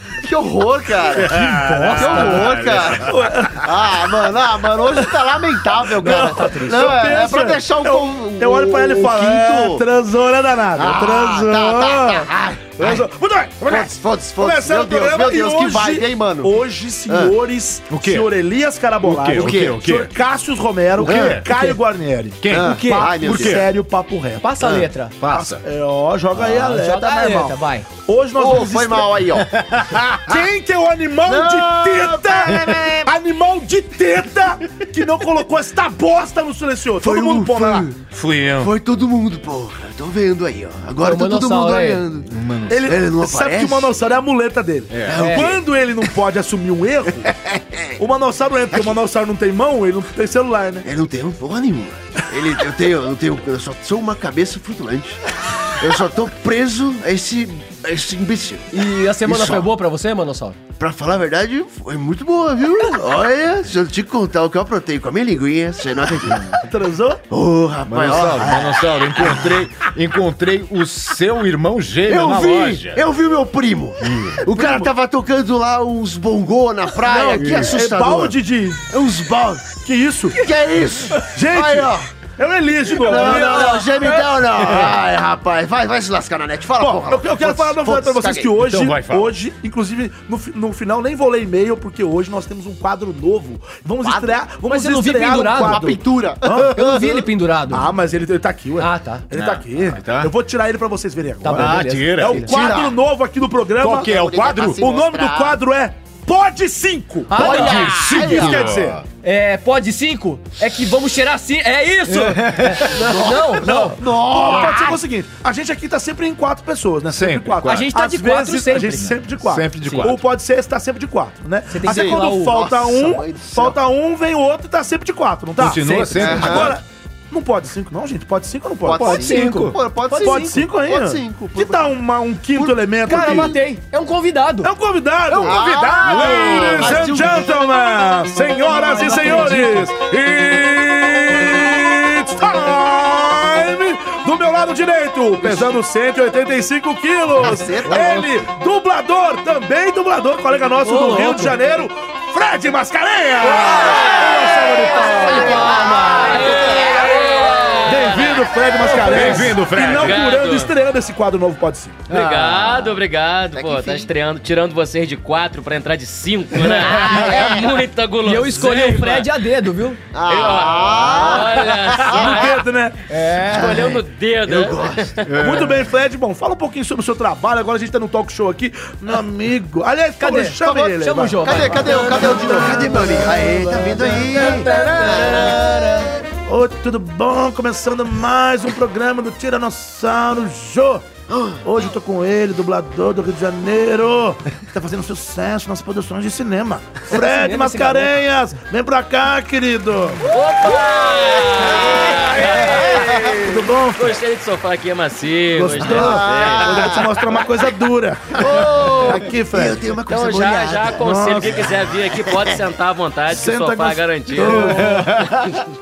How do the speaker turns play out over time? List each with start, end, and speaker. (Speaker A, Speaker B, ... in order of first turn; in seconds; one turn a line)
Speaker A: 0.2-1.4
Speaker B: 1.1-3.6
Speaker C: 1.3-2.5
Speaker A: 1.9-3.1
Speaker D: 2.2-3.7
Speaker A: 3.6-9.8
Speaker C: 6.0-7.2
Speaker D: 6.0-24.7
Speaker A: 10.8-13.1
Speaker A: 13.6-17.3
Speaker B: 17.9-18.3
Speaker B: 19.0-20.1
Speaker A: 19.4-19.8
Speaker B: 21.0-21.4
Speaker A: 21.0-21.4
Speaker C: 21.5-21.8
Speaker B: 22.4-23.7
Speaker A: 22.5-23.7
Speaker C: 22.5-23.1
Speaker C: 24.4-25.1
Speaker B: 25.2-25.6
Speaker D: 25.3-29.1
Speaker C: 26.3-27.9
Speaker A: 28.4-29.5
Speaker B: 29.4-30.4
Speaker D: 30.2-37.9
Speaker A: 31.2-33.1
Speaker A: 37.0-38.0
Speaker B: 38.0-38.7
Speaker A: 38.6-44.0
Speaker C: 41.0-42.0
Speaker B: 42.2-42.9
Speaker D: 42.7-47.3
Speaker B: 44.9-45.2
Speaker A: 45.0-45.7
Speaker C: 45.1-45.5
Speaker A: 47.4-47.9
Speaker D: 48.0-50.9
Speaker A: 50.8-58.7
Speaker C: 58.7-60.6
Speaker A: 59.2-59.7
Speaker A: 60.8-66.6
Speaker D: 66.5-67.2
Speaker A: 67.3-69.7
Speaker B: 67.8-73.0
Speaker A: 72.1-78.4
Speaker B: 74.0-74.4
Speaker D: 74.5-74.9
Speaker D: 77.0-78.8
Speaker B: 77.3-77.7
Speaker A: 78.9-79.8
Speaker D: 79.8-80.4
Speaker A: 80.4-82.0
Speaker D: 81.2-83.8
Speaker C: 82.9-84.3
Speaker A: 83.0-88.5
Speaker D: 86.8-96.7
Speaker B: 88.6-89.3
Speaker A: 94.0-94.4
Speaker C: 94.6-95.9
Speaker A: 95.5-97.3
Speaker C: 96.6-97.9
Speaker D: 97.7-104.2
Speaker C: 98.8-99.3
Speaker B: 99.3-100.3
Speaker C: 101.4-102.5
Speaker B: 101.5-102.5
Speaker A: 102.4-103.0
Speaker B: 103.8-104.8
Speaker A: 104.0-105.6
Speaker D: 104.7-109.0
Speaker C: 107.3-108.5
Speaker A: 107.3-108.7
Speaker B: 107.6-109.0
Speaker C: 109.2-114.8
Speaker B: 112.1-113.0
Speaker A: 113.0-115.0
Speaker D: 113.6-129.5
Speaker B: 117.1-117.9
Speaker C: 117.6-119.2
Speaker B: 119.4-120.2
Speaker C: 119.8-120.1
Speaker C: 121.7-122.6
Speaker A: 121.8-123.8
Speaker B: 125.6-126.8
Speaker C: 125.8-126.5
Speaker A: 126.2-126.8
Speaker A: 128.8-131.9
Speaker B: 128.9-129.8
Speaker C: 129.2-130.7
Speaker D: 130.2-133.5
Speaker C: 132.5-134.7
Speaker A: 133.2-133.4
Speaker D: 134.6-155.7
Speaker B: 135.3-137.1
Speaker A: 135.3-137.5
Speaker C: 138.6-139.9
Speaker A: 147.4-148.3
Speaker C: 150.8-151.7
Speaker A: 153.5-157.1
Speaker E: 153.6-160.7
Speaker C: 155.0-157.7
Speaker D: 157.8-162.1
Speaker B: 158.9-160.2
Speaker E: 162.1-169.3
Speaker A: 162.6-162.9
Speaker A: 163.6-164.1
Speaker B: 166.8-167.4
Speaker C: 166.9-167.7
Speaker C: 168.2-170.0
Speaker A: 170.1-172.6
Speaker E: 170.2-172.6
Speaker D: 172.1-173.0
Speaker C: 173.1-173.8
Speaker E: 173.3-175.3
Speaker A: 173.4-175.3
Speaker B: 175.2-175.9
Speaker D: 175.4-184.9
Speaker C: 180.2-183.0
Speaker A: 181.4-185.9
Speaker C: 183.9-186.1
Speaker D: 186.5-191.1
Speaker A: 191.3-191.7
Speaker D: 191.6-200.2
Speaker C: 197.1-198.2
Speaker E: 200.3-207.1
Speaker A: 200.6-203.4
Speaker D: 203.3-204.2
Speaker D: 205.5-209.9
Speaker A: 205.6-207.4
Speaker A: 208.4-212.6
Speaker E: 208.5-209.1
Speaker E: 210.1-215.0
Speaker D: 211.0-211.6
Speaker D: 213.3-215.2
Speaker B: 214.3-215.6